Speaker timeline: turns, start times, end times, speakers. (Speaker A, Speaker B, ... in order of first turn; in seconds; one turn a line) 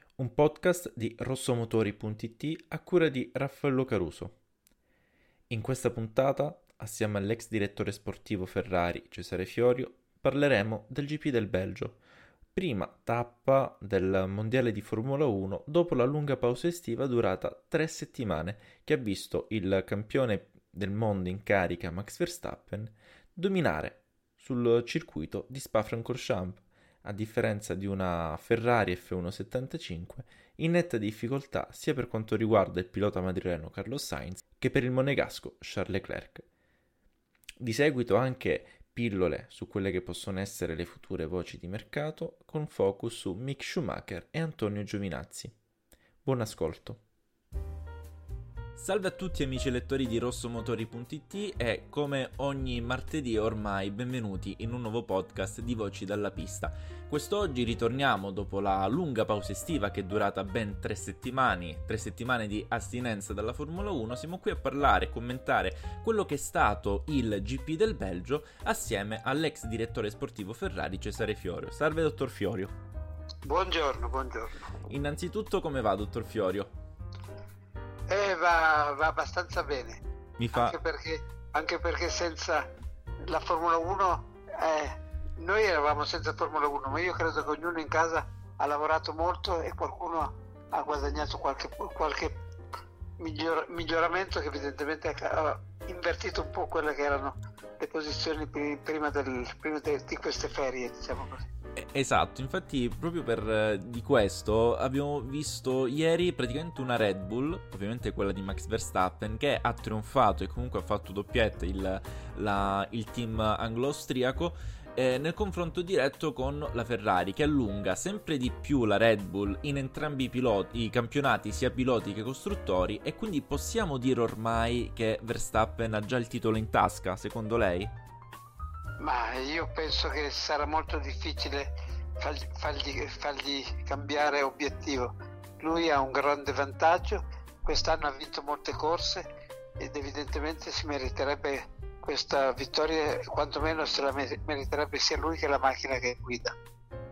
Speaker A: 0.2-4.3
Speaker A: 5.5-12.0
Speaker A: 12.5-36.5
Speaker A: 37.6-45.5
Speaker A: 46.2-47.0
Speaker A: 48.8-72.8
Speaker B: 73.4-74.7
Speaker A: 74.9-76.7
Speaker B: 78.1-82.7
Speaker A: 80.4-80.8
Speaker B: 83.2-92.3
Speaker B: 93.2-101.5
Speaker A: 101.8-127.9
Speaker B: 129.0-139.2
Speaker B: 139.8-146.5